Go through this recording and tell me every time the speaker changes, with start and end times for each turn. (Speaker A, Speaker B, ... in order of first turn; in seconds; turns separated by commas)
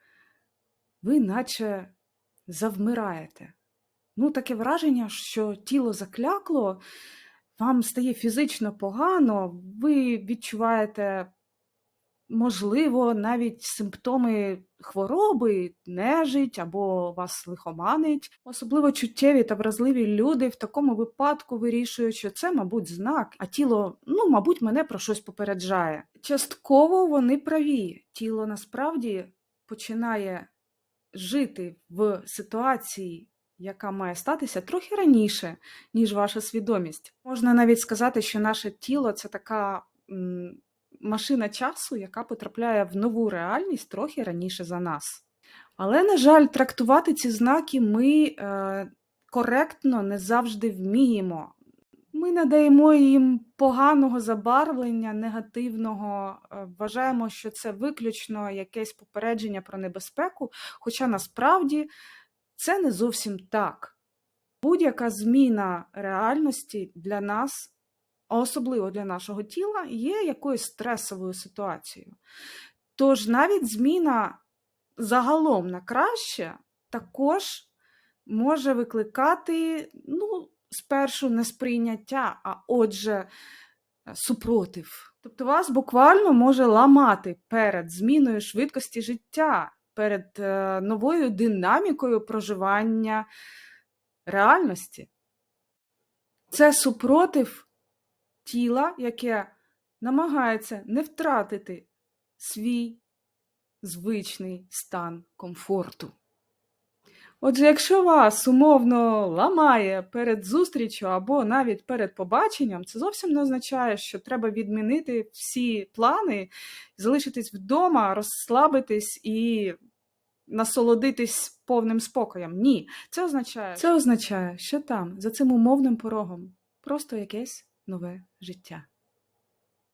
Speaker A: 1.0-1.9, Speaker A: 2.5-3.5, Speaker A: 4.2-6.8, Speaker A: 7.6-11.3, Speaker A: 12.3-30.5, Speaker A: 31.1-45.2, Speaker A: 45.8-51.5, Speaker A: 52.1-61.9, Speaker A: 62.6-64.0, Speaker A: 64.6-67.7, Speaker A: 68.3-72.2, Speaker A: 73.0-74.4, Speaker A: 75.0-77.7, Speaker A: 78.3-83.3, Speaker A: 84.1-93.3, Speaker A: 94.3-95.1, Speaker A: 96.5-97.7, Speaker A: 98.4-103.0, Speaker A: 103.8-106.2, Speaker A: 107.4-119.8, Speaker A: 120.5-128.9